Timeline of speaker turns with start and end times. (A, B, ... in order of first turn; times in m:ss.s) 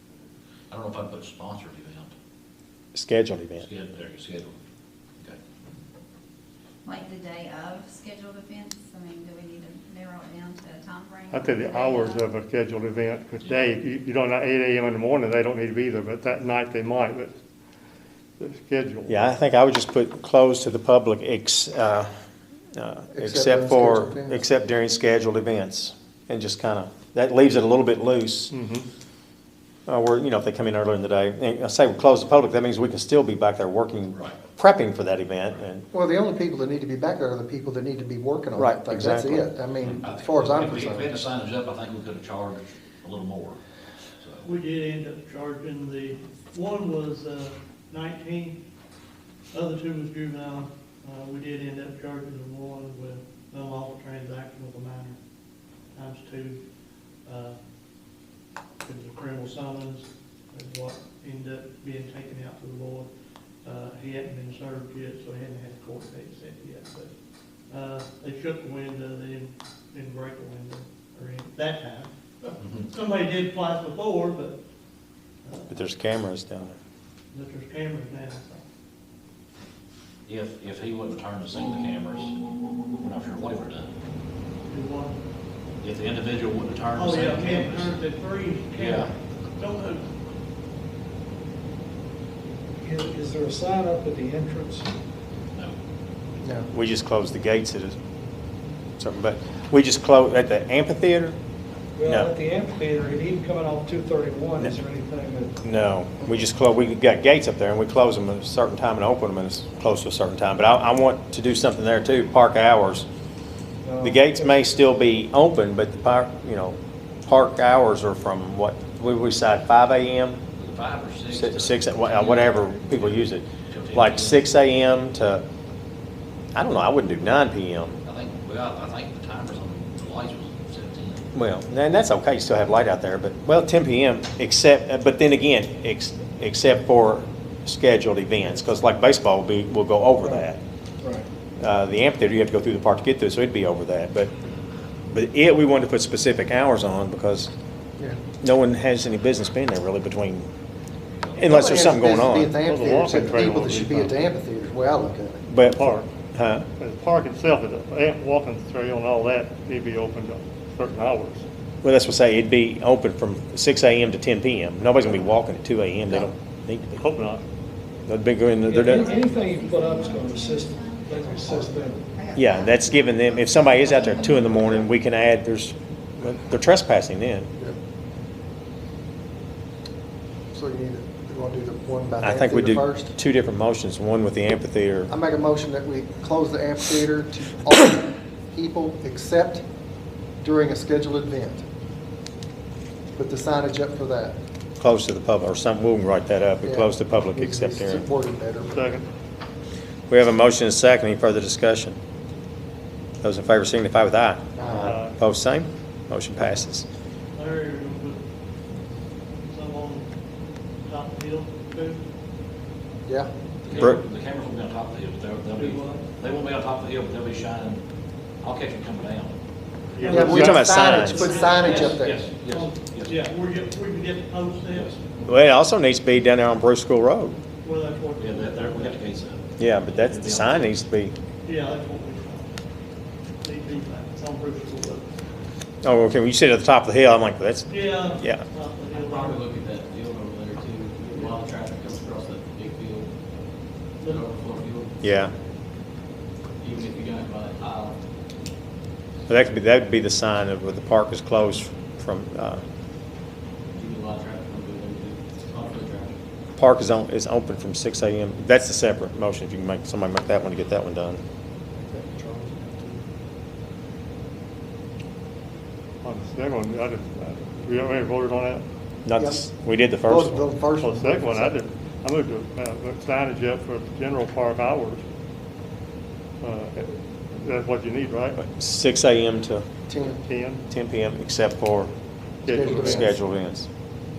0:00.7-0:02.1 A
0:02.9-0:03.7 B
0:03.6-0:04.5 A
0:06.8-0:12.3 C
0:11.3-0:17.3 D
0:18.4-0:19.2 D
0:19.1-0:22.1 B
0:22.7-0:28.5 B
0:23.1-0:24.4 E
0:28.5-0:28.8 D
0:29.9-0:35.9 B
0:35.9-0:41.1 E
0:38.6-0:39.5 B
0:39.8-0:43.6 A
0:44.2-0:44.5 A
0:44.4-0:48.6 F
0:49.5-0:55.2 F
0:55.9-0:56.6 F
0:57.2-0:57.6 F
0:58.8-1:03.1 F
1:03.6-1:07.1 F
1:07.7-1:14.6 F
1:12.6-1:12.9 A
1:15.4-1:15.8 F
1:15.7-1:16.7 B
1:17.3-1:18.6 F
1:20.3-1:22.4 A
1:23.0-1:23.9 A
1:24.7-1:25.2 F
1:25.8-1:27.9 A
1:26.9-1:30.1 F
1:28.7-1:29.1 A
1:32.8-1:34.9 G
1:36.4-1:36.7 E
1:36.7-1:38.0 B
1:39.0-1:41.4 B
1:42.0-1:45.6 G
1:42.0-1:42.3 B
1:45.6-1:53.0 B
1:53.8-1:54.6 G
1:54.0-2:00.4 B
2:00.6-2:04.5 A
2:01.3-2:05.4 B
2:06.5-2:08.0 B
2:08.0-2:11.3 A
2:11.3-2:20.6 B
2:20.2-2:20.4 G
2:21.0-2:21.3 G
2:21.6-2:24.3 B
2:25.1-2:27.5 B
2:28.4-2:30.5 B
2:31.3-2:32.6 B
2:31.4-2:35.5 E
2:32.6-2:34.2 D
2:35.5-2:36.6 B
2:35.6-2:36.1 D
2:36.8-2:41.4 D
2:41.8-2:47.0 B
2:47.0-2:47.4 D
2:48.0-2:49.2 B
2:48.6-2:52.0 G
2:49.0-2:54.6 C
2:51.5-2:51.9 E
2:52.3-2:57.5 B
3:00.5-3:03.1 E
3:02.2-3:05.1 B
3:05.1-3:09.6 E
3:10.4-3:11.6 E
3:13.2-3:14.4 E
3:14.8-3:18.1 B
3:16.6-3:19.0 E
3:18.6-3:19.1 D
3:20.1-3:22.0 B
3:23.2-3:26.8 B
3:24.6-3:25.0 E
3:24.7-3:25.2 D
3:27.3-3:28.2 F
3:29.4-3:30.1 F
3:30.8-3:32.0 F
3:33.0-3:33.3 E
3:33.6-3:37.8 A
3:33.7-3:34.0 B
3:35.5-3:36.0 F
3:38.4-3:39.4 A
3:40.0-3:45.0 F
3:40.0-3:42.2 E
3:40.1-3:41.4 B
3:41.5-3:43.3 A
3:44.7-3:45.3 A
3:45.3-3:47.4 B
3:47.6-3:49.0 F
3:48.2-3:50.8 A
3:49.6-3:51.1 B
3:51.4-3:52.5 F
3:53.4-3:55.1 F
3:55.8-3:58.4 B
3:57.7-3:59.4 F
3:58.9-4:03.1 H
4:04.0-4:04.2 F
4:04.0-4:05.0 H
4:05.0-4:05.3 B
4:06.6-4:08.0 H
4:09.3-4:12.6 B
4:13.7-4:16.1 H
4:16.6-4:21.2 B
4:21.7-4:23.0 E
4:26.0-4:28.6 D
4:29.0-4:30.5 B
4:29.2-4:29.4 E
4:30.0-4:31.6 E
4:30.8-4:35.0 D
4:36.4-4:38.4 D
4:38.4-4:39.6 B
4:39.9-4:40.2 E
4:40.1-4:40.6 D
4:40.7-4:41.9 B
4:42.4-4:43.1 D
4:42.5-4:43.1 E
4:42.6-4:43.7 B